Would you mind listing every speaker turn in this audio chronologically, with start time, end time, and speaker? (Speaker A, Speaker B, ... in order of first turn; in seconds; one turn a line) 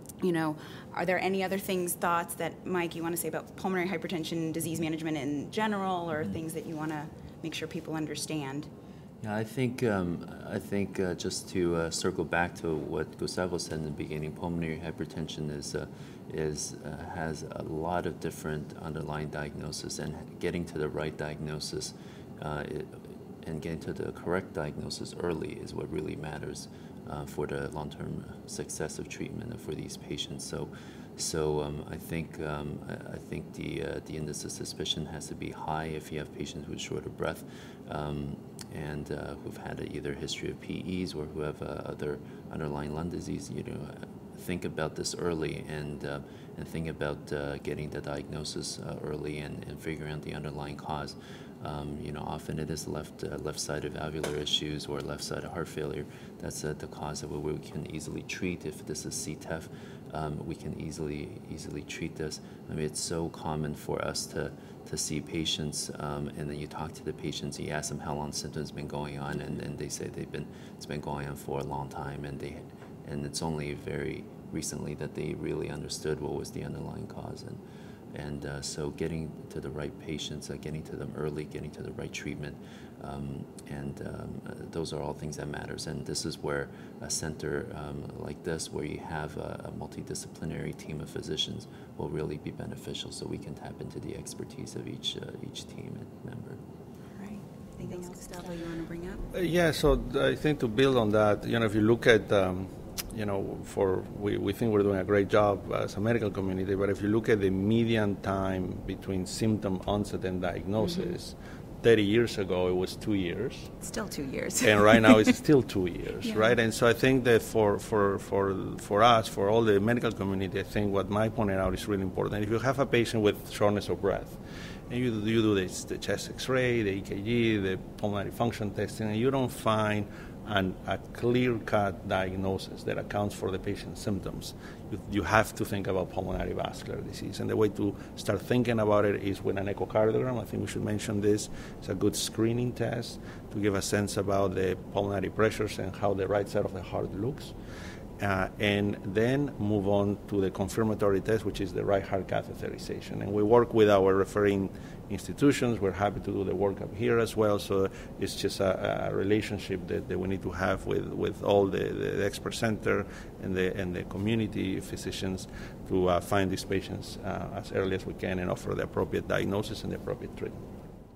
Speaker A: 0.2-8.7
Speaker B: 9.2-77.6
Speaker B: 78.1-96.6
Speaker A: 97.1-99.2
Speaker C: 99.3-113.7
Speaker A: 110.8-111.1
Speaker A: 113.8-115.3
Speaker C: 114.6-147.5
Speaker A: 116.2-116.5
Speaker C: 148.2-170.6